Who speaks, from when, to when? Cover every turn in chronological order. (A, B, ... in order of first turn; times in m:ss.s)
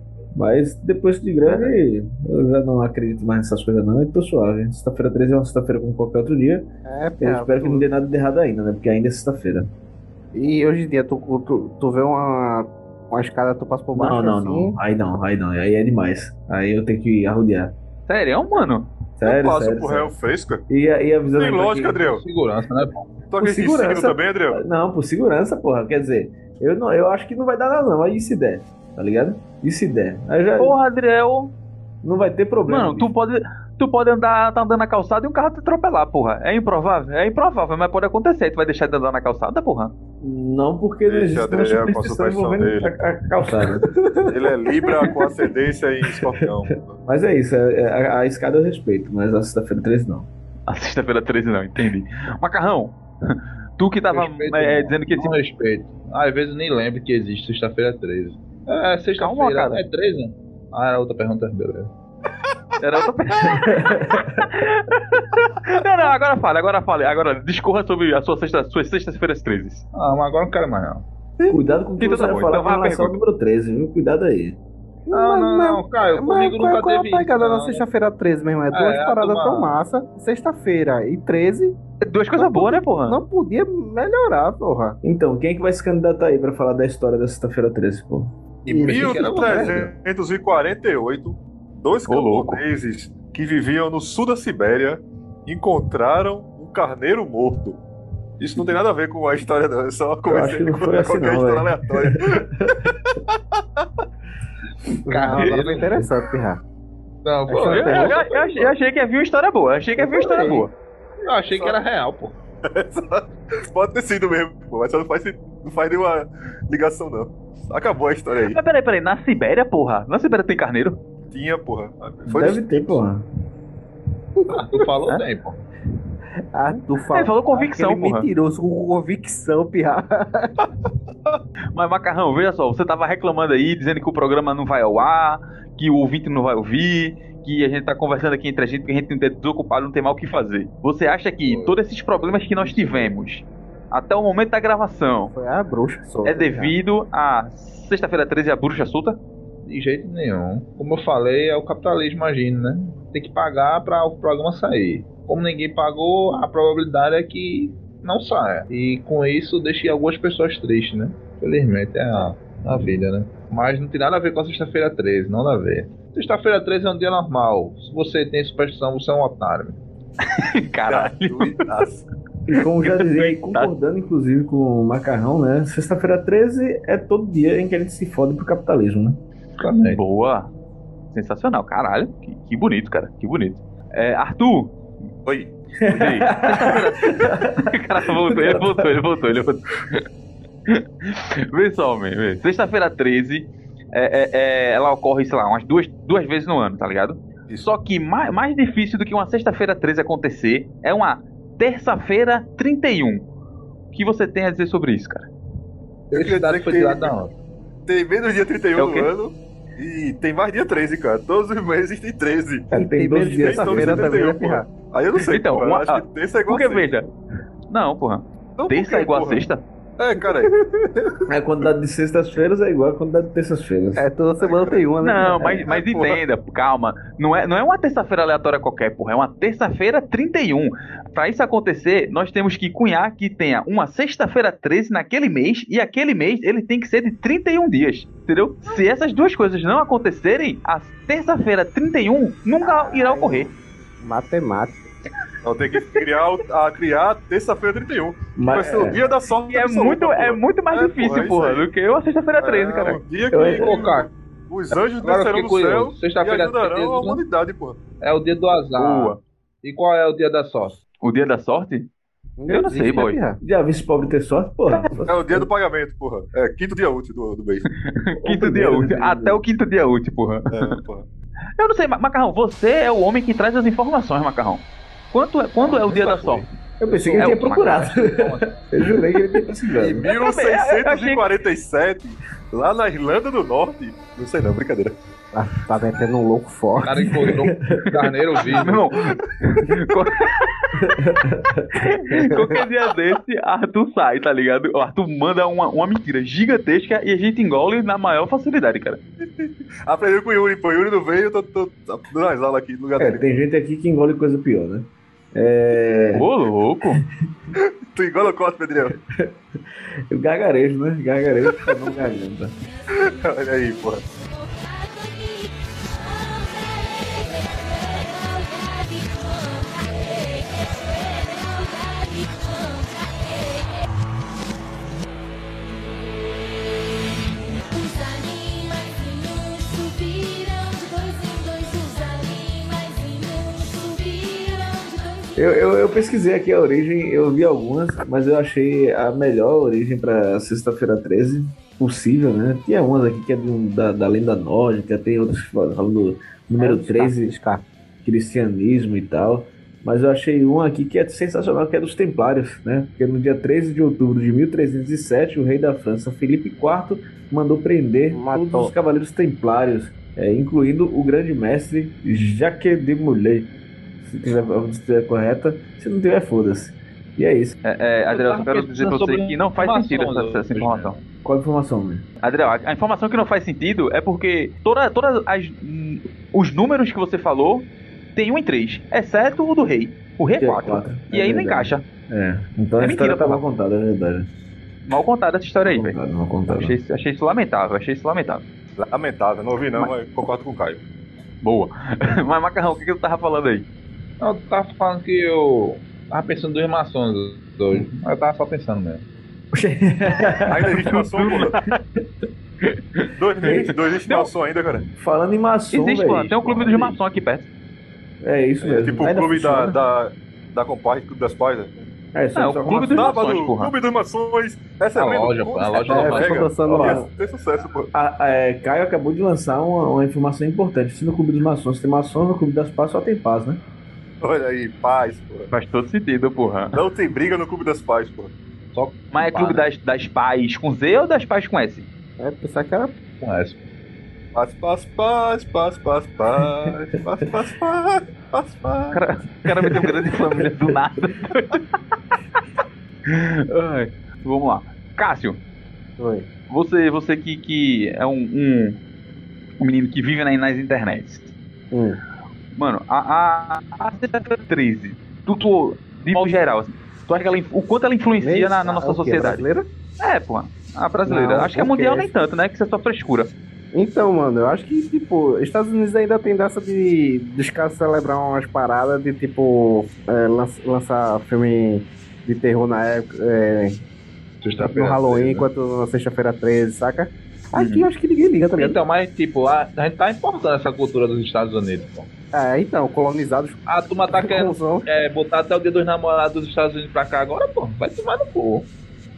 0:00.4-0:06.7 A
0:06.9-0:07.9 B
0:07.2-0:09.7 A
0:10.4-0:14.7 B
0:13.9-0:17.7 A
0:18.1-0:18.9 C
0:19.2-0:20.1 A
0:19.2-0:20.6 D
0:20.7-0:22.0 A
0:21.4-0:22.2 D
0:22.0-0:23.1 E
0:23.3-0:24.6 D
0:23.4-0:30.8 A
0:30.6-0:31.5 C
0:32.0-0:33.1 A
0:32.7-0:39.9 C
0:40.2-0:45.4 A
0:41.1-0:43.0 D
0:44.3-0:47.0 D
0:46.0-0:46.5 A
0:47.0-0:50.3 A
0:50.7-0:55.4 C
0:54.1-1:01.9 E
0:59.2-0:59.8 C
1:02.8-1:09.8 C
1:03.4-1:04.4 A
1:09.9-1:11.0 E
1:11.4-1:12.5 D
1:11.5-1:14.6 A
1:12.0-1:13.2 C
1:15.1-1:21.8 B
1:15.1-1:17.8 E
1:18.7-1:19.8 E
1:22.0-1:23.2 C
1:22.4-1:25.0 B
1:25.0-1:28.3 A
1:28.7-1:37.8 D
1:28.7-1:29.8 B
1:28.7-1:29.9 E
1:32.1-1:32.6 C
1:38.4-1:43.9 D
1:40.3-1:42.9 A
1:45.1-1:46.6 B
1:45.1-1:45.9 E
1:47.2-1:48.7 E
1:47.5-1:48.2 B
1:47.7-1:50.7 C
1:50.0-1:50.7 B
1:51.3-1:52.4 E
1:52.6-1:58.6 D
1:58.4-2:01.0 C
2:01.3-2:03.0 D
2:02.3-2:03.3 A
2:04.4-2:04.8 B
2:04.5-2:05.6 E
2:06.5-2:10.5 B
2:07.1-2:08.3 C
2:11.8-2:25.3 C
2:21.4-2:23.1 E
2:25.3-2:26.8 B
2:26.2-2:29.2 C
2:29.6-2:49.8 E
2:50.3-2:51.6 C
2:50.9-2:52.0 D
2:52.5-2:59.2 A
2:52.8-2:53.7 C
2:59.6-3:00.0 E
2:59.9-3:00.5 C
3:01.1-3:04.8 C
3:05.3-3:10.0 C
3:05.8-3:09.0 A
3:10.7-3:23.2 C
3:23.9-3:25.3 C
3:26.1-3:27.1 D
3:26.1-3:27.3 E
3:27.9-3:32.7 D
3:28.8-3:29.1 C
3:32.7-3:34.2 A
3:32.7-3:34.7 B
3:33.4-3:36.9 D
3:35.3-3:37.1 C
3:37.7-3:39.6 C
3:38.6-3:39.5 D
3:40.0-3:41.2 D
3:41.3-3:44.1 A
3:44.0-3:45.8 B
3:44.4-3:44.8 D
3:45.0-4:03.5 C
3:45.7-3:46.2 D
4:02.6-4:04.8 B
4:05.4-4:11.7 D
4:08.4-4:09.0 A
4:09.5-4:13.0 C
4:12.4-4:17.8 D
4:13.3-4:13.9 A
4:13.6-4:14.1 E
4:15.0-4:17.2 E
4:18.0-4:20.8 E
4:18.8-4:19.2 C
4:21.0-4:21.9 C
4:22.4-4:23.4 B
4:22.5-4:23.2 C
4:23.4-4:25.5 A
4:25.0-4:27.7 D
4:27.8-4:30.8 C
4:28.2-4:29.4 A
4:30.5-4:31.1 D
4:31.6-4:36.5 C
4:35.6-4:36.5 D
4:36.8-4:40.1 A
4:36.9-4:38.6 E
4:37.2-4:37.7 C
4:39.8-4:45.0 D
4:40.0-4:41.3 C
4:45.3-4:47.2 B
4:46.8-4:48.8 E
4:47.2-4:47.8 A
4:48.4-4:50.7 C
4:50.8-4:52.3 A
4:51.8-4:59.0 C
4:59.4-5:03.2 D
5:03.0-5:06.3 A
5:06.1-5:07.0 C
5:07.6-5:09.0 D
5:09.0-5:09.4 A
5:10.1-5:12.5 A
5:12.9-5:14.0 D
5:14.1-5:24.0 F
5:25.7-5:35.9 F
5:35.4-5:47.4 A
5:46.6-5:47.6 B
5:48.0-6:03.5 A
5:58.1-5:58.7 B
6:04.0-6:07.6 A
6:07.6-6:11.0 C
6:08.1-6:11.0 E
6:11.2-6:12.0 A
6:12.2-6:21.8 C
6:20.4-6:24.3 A
6:22.8-6:23.4 C
6:24.9-6:26.0 C
6:25.6-6:26.8 A
6:26.5-6:28.4 C
6:28.8-6:30.8 D
6:31.4-6:33.7 C
6:34.2-6:39.0 E
6:39.5-6:40.8 A
6:40.5-6:41.6 D
6:40.8-6:41.8 C
6:42.7-6:44.3 C
6:43.2-6:44.9 D
6:43.4-6:43.7 A
6:44.9-6:46.7 A
6:45.7-6:47.5 C
6:46.4-6:47.0 E
6:48.2-6:49.8 A
6:48.6-6:51.8 D
6:52.2-6:53.1 A
6:52.4-6:53.7 C
6:52.9-6:57.9 D
6:55.0-6:56.7 E
6:55.9-6:57.1 B
6:56.7-6:57.1 A
6:57.9-7:03.6 A
7:04.2-7:05.5 D
7:05.5-7:06.8 C
7:06.7-7:08.3 D
7:08.7-7:09.6 E
7:09.1-7:11.9 C
7:12.2-7:13.0 B
7:13.2-7:13.7 E
7:14.4-7:19.0 D
7:18.9-7:21.7 C
7:23.1-7:25.4 C
7:26.0-7:26.3 B
7:26.5-7:28.8 C
7:29.6-7:31.3 C
7:31.7-7:32.0 B
7:32.5-7:39.4 C
7:38.2-7:39.7 B
7:40.0-7:43.3 C
7:41.1-7:42.1 B
7:43.7-7:53.8 B
7:54.4-7:55.5 E
7:54.6-7:58.8 B
7:57.6-7:57.9 C
7:58.5-8:02.1 E
8:02.3-8:04.9 B
8:03.7-8:08.7 E